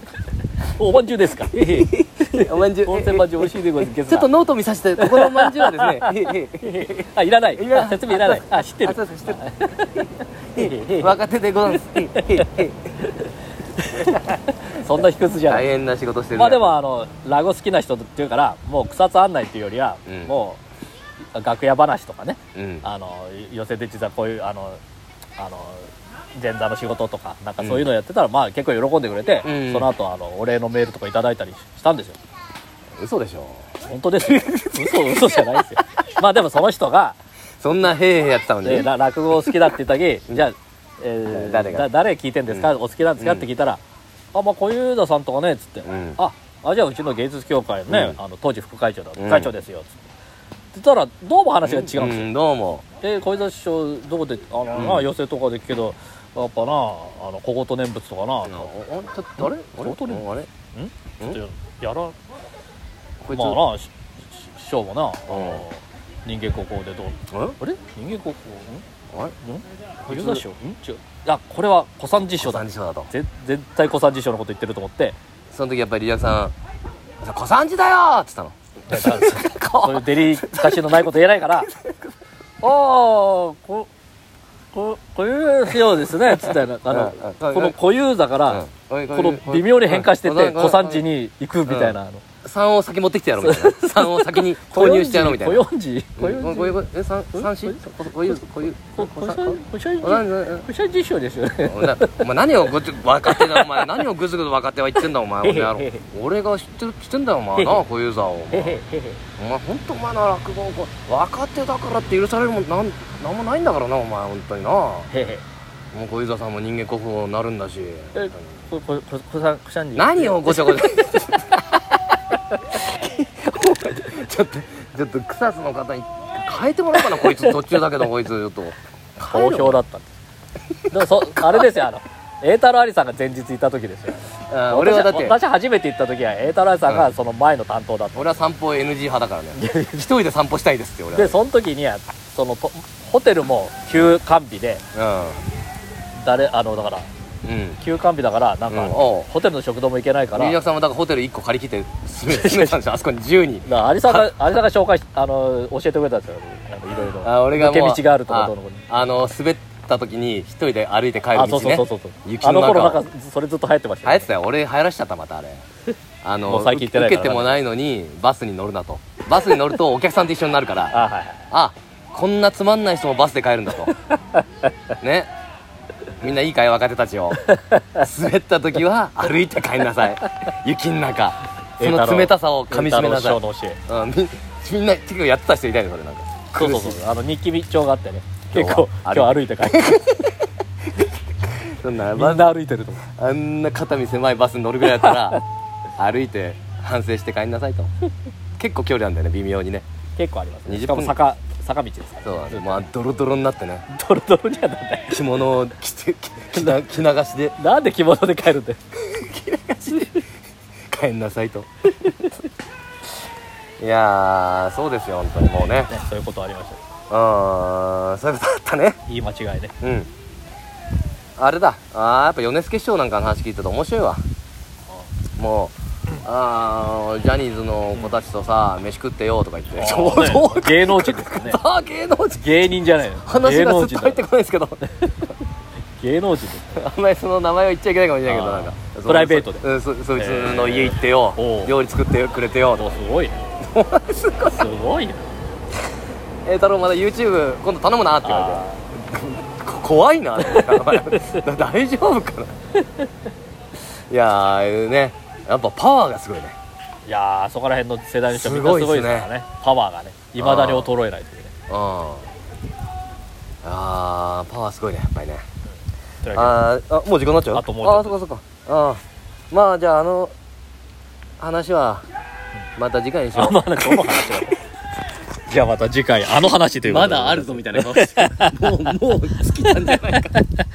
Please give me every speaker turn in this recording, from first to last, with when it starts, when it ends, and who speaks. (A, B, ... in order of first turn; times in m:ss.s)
0:00.6-0:04.3 A
0:01.5-0:03.5 B
0:04.0-0:09.4 B
0:05.0-0:11.2 A
0:10.5-0:13.0 B
0:11.7-0:12.5 A
0:13.8-0:15.6 A
0:15.4-0:16.8 B
0:16.3-0:20.6 A
0:20.0-0:20.3 B
0:21.3-0:24.8 A
0:22.5-0:22.9 B
0:25.4-0:32.2 A
0:27.6-0:27.9 B
0:29.4-0:29.9 B
0:33.0-0:35.6 B
0:33.8-0:37.2 A
0:37.6-0:39.7 B
0:38.6-0:43.8 A
0:41.3-0:41.9 B
0:42.5-0:43.5 B
0:44.3-0:50.0 A
0:45.8-0:46.2 B
0:47.9-0:48.2 B
0:49.2-0:49.5 B
0:50.7-0:52.3 A
0:51.6-0:52.8 B
0:53.0-0:58.7 A
0:54.7-0:55.1 B
0:58.4-1:00.5 B
0:59.4-1:02.1 A
1:03.2-1:03.6 B
1:03.3-1:08.8 A
1:05.3-1:05.6 B
1:07.3-1:07.6 B
1:09.4-1:15.2 A
1:10.0-1:10.4 B
1:12.4-1:13.1 B
1:15.5-1:16.5 B
1:17.2-1:22.1 B
1:18.9-1:21.7 A
1:22.6-1:23.9 A
1:24.7-1:32.2 A
1:26.3-1:27.8 B
1:28.4-1:31.0 B
1:31.6-1:35.6 B
1:33.4-1:36.8 A
1:36.2-1:40.7 B
1:37.3-1:38.4 A
1:39.0-1:42.2 A
1:41.6-1:48.8 B
1:43.2-1:43.8 A
1:45.4-1:46.0 A
1:47.6-1:47.8 A
1:48.5-1:49.2 A
1:49.4-1:55.1 B
1:55.1-1:55.4 A
1:55.9-1:58.4 B
1:58.1-2:00.8 A
2:00.0-2:02.2 B
2:02.7-2:09.8 B
2:09.2-2:10.2 A
2:10.8-2:11.7 B
2:10.9-2:18.4 A
2:14.5-2:15.4 B
2:18.1-2:21.4 B
2:19.5-2:20.1 A
2:21.1-2:24.8 A
2:24.9-2:25.4 B
2:26.2-2:27.1 A
2:27.4-2:27.8 B
2:27.8-2:30.6 A
2:28.7-2:29.3 B
2:30.3-2:34.3 B
2:32.2-2:32.8 A
2:33.6-2:39.3 A
2:37.2-2:43.0 B
2:41.3-2:44.3 A
2:44.0-2:45.6 B
2:46.2-2:53.9 B
2:46.5-2:47.6 A
2:50.9-2:51.4 A
2:55.0-2:55.3 B
2:56.2-2:57.4 B
2:57.4-2:58.0 A
2:57.9-3:07.0 B
3:01.8-3:03.8 A
3:06.5-3:10.1 A
3:08.5-3:10.4 B
3:11.0-3:12.5 B
3:12.1-3:13.0 A
3:13.0-3:15.4 B
3:14.9-3:15.4 A
3:16.0-3:17.9 B
3:18.6-3:19.8 B
3:20.2-3:22.8 A
3:20.6-3:21.2 B
3:22.2-3:23.8 B
3:23.9-3:25.2 A
3:25.1-3:27.6 B
3:27.6-3:28.8 A
3:29.0-3:30.2 B
3:30.9-3:31.7 B
3:33.8-3:35.9 B
3:35.9-3:36.8 A
3:37.1-3:39.0 B
3:39.1-3:39.7 A
3:39.8-3:40.1 B
3:41.4-3:44.2 B
3:45.4-3:54.8 B
3:49.8-3:51.6 A
3:52.3-3:54.2 A
3:54.9-3:55.2 A
3:56.0-3:56.8 A
3:56.7-4:02.9 B
3:58.3-3:59.6 A
4:00.2-4:01.8 A
4:02.7-4:03.4 A
4:03.6-4:04.7 B
4:04.5-4:05.3 A
4:06.4-4:12.6 B
4:08.2-4:08.8 A
4:10.4-4:11.4 A
4:13.8-4:16.6 B
4:17.0-4:21.5 A
4:18.3-4:19.3 B
4:20.4-4:20.9 B
4:21.7-4:22.3 B
4:23.6-4:25.4 B
4:26.2-4:26.6 A
4:26.3-4:30.3 B
4:27.5-4:28.1 A
4:31.4-4:32.0 B
4:32.8-4:34.4 B
4:33.3-4:34.6 A
4:35.5-4:38.7 A
4:36.8-4:40.4 B
4:39.6-4:40.6 A